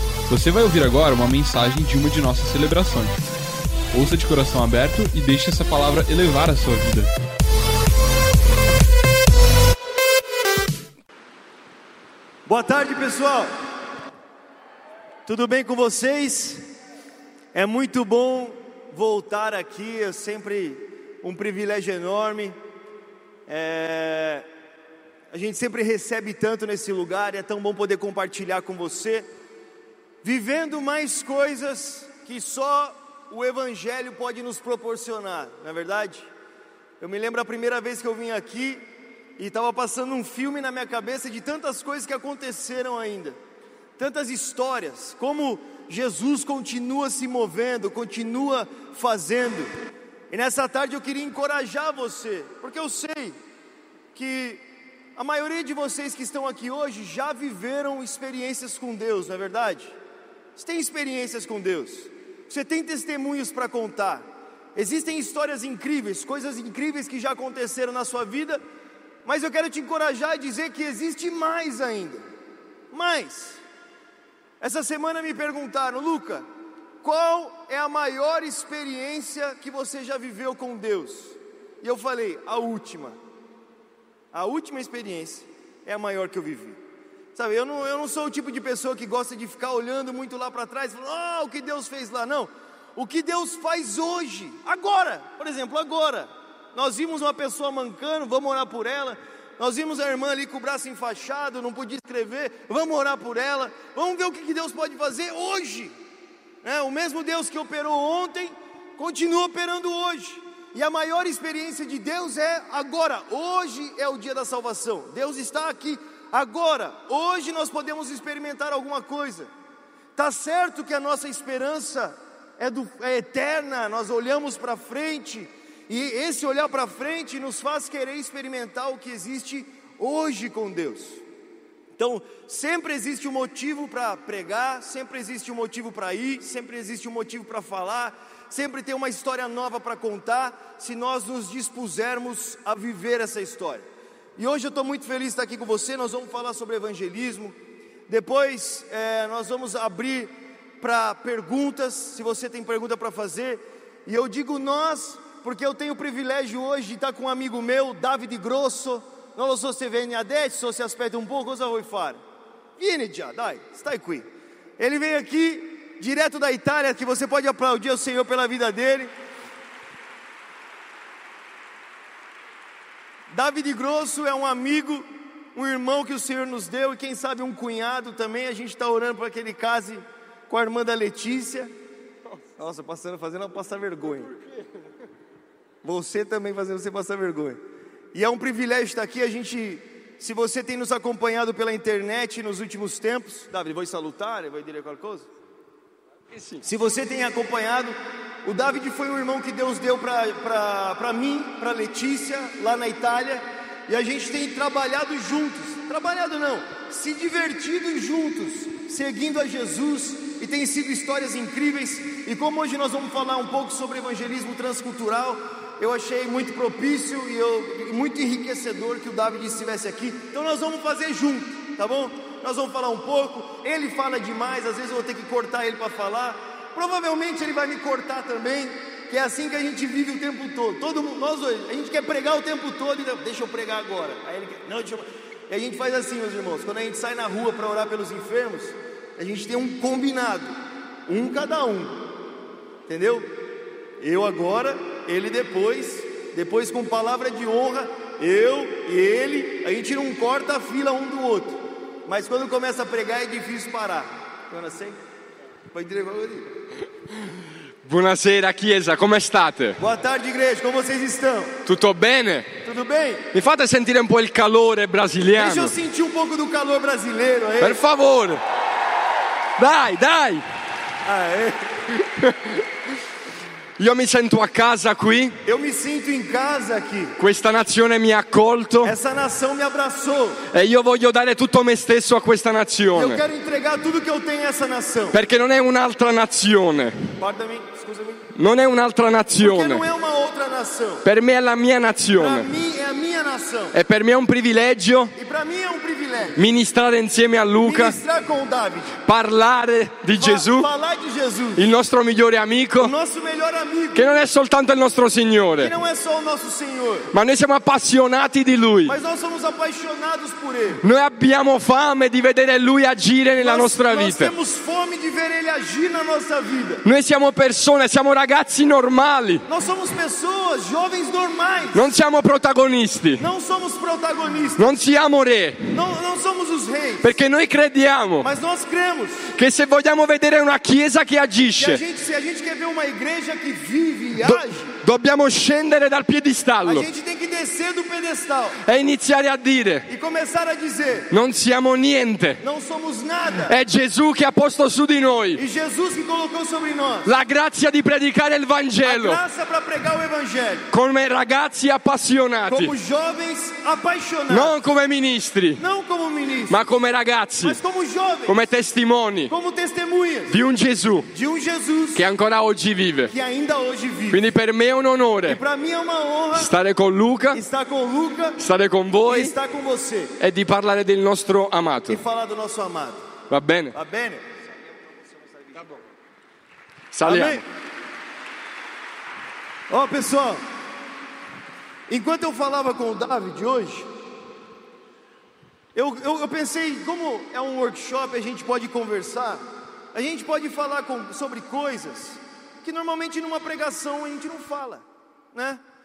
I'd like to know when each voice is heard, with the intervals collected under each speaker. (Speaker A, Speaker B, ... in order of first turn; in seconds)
Speaker A: 0.3-3.2, 3.9-7.1
Speaker B: 12.5-13.5, 15.3-16.6, 17.5-22.6, 23.5-24.5, 25.3-29.3, 30.2-36.3, 37.0-38.9, 39.4-43.4, 44.0-49.7, 50.3-53.4, 54.1-54.6, 55.2-60.0, 60.6-68.6, 69.2-72.2, 72.9-73.6, 74.6-76.5, 77.0-83.2, 84.3-86.8, 87.3-105.9, 106.6-119.5, 120.2-131.2, 132.0-143.9, 144.4-147.6, 148.1-162.2, 162.8-164.2, 164.8-169.1, 173.3-181.7, 182.6-184.3, 185.8-187.6, 188.1-195.3, 196.6-242.1, 242.9-243.3, 244.0-255.0, 255.7-256.5, 259.8-261.6, 262.6-263.3, 265.3-267.8, 271.0-271.7, 275.4-277.1, 278.8-280.4, 282.9-285.2, 287.2-288.3, 289.4-291.1, 292.2-293.8, 295.2-296.4, 297.6-299.0, 300.1-301.7, 302.8-304.1, 305.6-307.1, 308.9-310.8, 313.4-316.8, 319.5-321.9, 323.2-324.8, 325.7-327.1, 328.2-329.3, 331.6-334.8, 336.6-338.6, 339.9-341.1, 342.4-343.6, 345.4-347.1, 348.8-350.7, 352.5-354.6, 355.6-356.6, 357.4-358.4, 359.3-360.4, 361.1-362.0, 363.1-364.2, 365.3-366.5, 367.3-368.4, 369.1-370.1, 371.9-373.1, 373.7-374.4, 377.0-377.4, 379.7-380.4, 381.9-383.9, 385.8-395.6
Speaker C: 196.3-196.6, 257.9-259.8, 261.7-262.6, 263.3-265.8, 267.6-268.4, 269.6-270.4, 272.2-272.6, 273.8-275.4, 277.2-278.9, 280.5-283.2, 285.1-287.1, 288.4-289.9, 291.1-292.5, 293.7-295.1, 296.4-298.0, 299.1-300.7, 301.6-302.9, 303.9-305.7, 307.1-309.0, 310.8-314.3, 316.8-319.4, 321.7-323.3, 324.6-325.7, 327.0-328.3, 329.4-331.8, 334.2-336.9, 338.6-339.9, 341.1-342.4, 343.5-345.4, 347.1-349.2, 350.7-352.8, 354.3-355.6, 356.5-357.6, 358.3-359.3, 360.3-361.1, 361.9-363.1, 364.1-365.4, 366.3-367.4, 368.4-369.4, 370.2-372.0, 373.3-373.8, 376.9-377.4